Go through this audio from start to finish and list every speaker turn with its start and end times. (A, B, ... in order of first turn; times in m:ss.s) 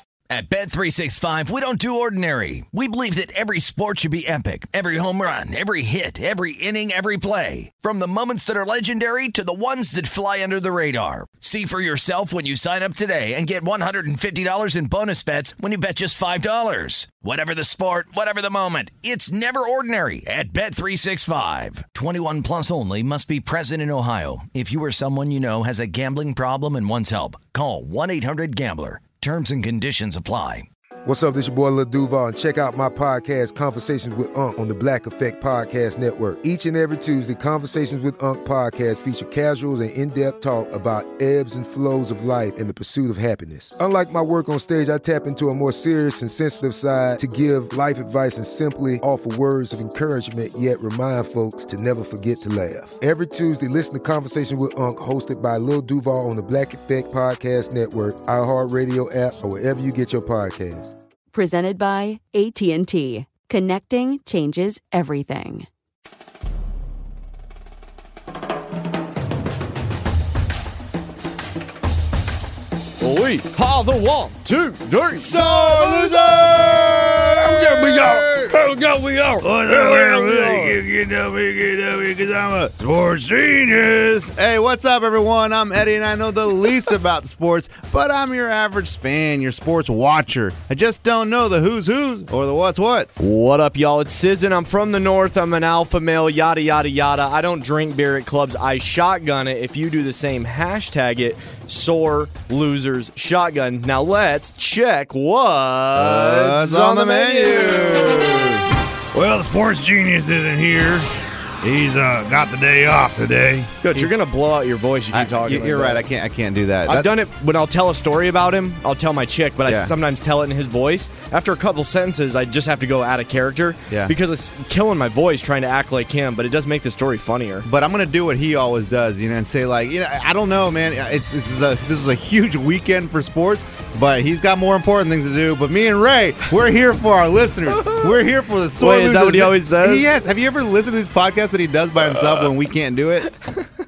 0:00.3-0:30.7 A
0:31.1-1:00.9 B
1:01.3-1:05.7 C
1:13.0-1:20.8 D
1:15.2-1:18.6 E
1:19.4-1:33.2 E
1:33.2-1:48.6 D
1:45.9-1:51.1 E
1:51.6-1:54.1 E
1:53.8-1:56.0 D
1:55.1-1:57.1 E
1:56.9-2:07.7 D
1:59.7-1:59.9 E
2:07.6-2:23.3 E
2:17.8-2:18.1 D
2:18.8-2:20.1 D